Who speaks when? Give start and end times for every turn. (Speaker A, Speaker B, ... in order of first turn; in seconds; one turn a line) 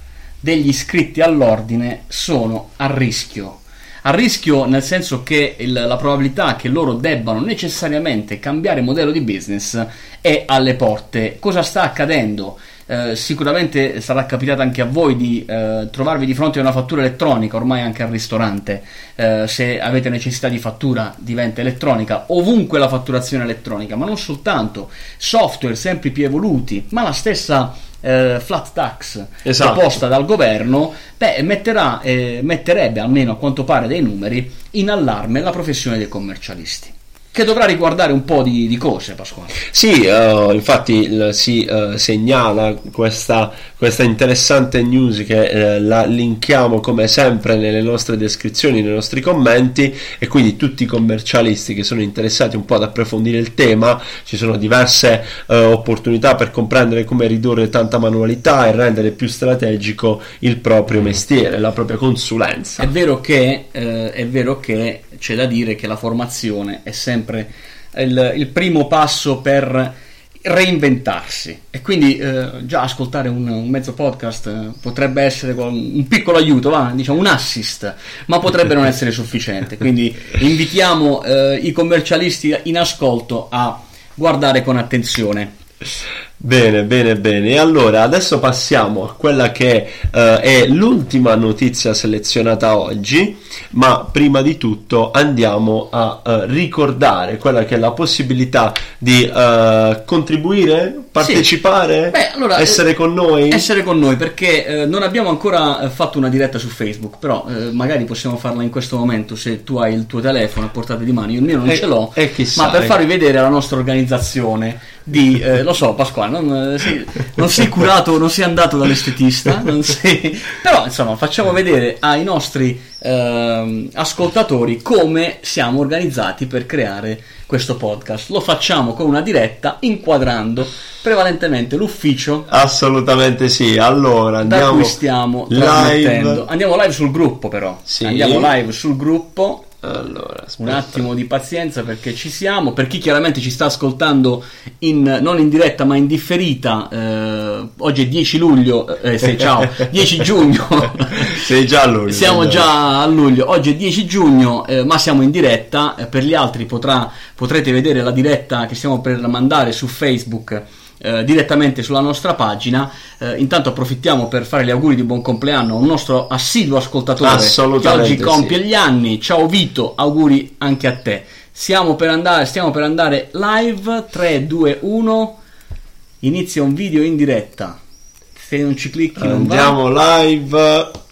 Speaker A: 0.4-39.6
Speaker B: 29.4-30.0
Speaker B: 39.6-62.9
Speaker A: 62.8-85.5
Speaker B: 86.4-103.6
Speaker A: 101.2-101.5
Speaker A: 102.1-102.8
Speaker A: 103.5-132.5
Speaker B: 111.7-112.9
Speaker B: 132.5-135.0
Speaker A: 134.4-139.7
Speaker B: 135.5-136.4
Speaker B: 137.9-138.5
Speaker B: 139.8-141.0
Speaker A: 140.6-151.4
Speaker B: 151.2-152.7
Speaker A: 152.1-175.4
Speaker B: 167.2-168.6
Speaker A: 176.2-177.8
Speaker A: 178.3-179.8
Speaker B: 179.2-180.9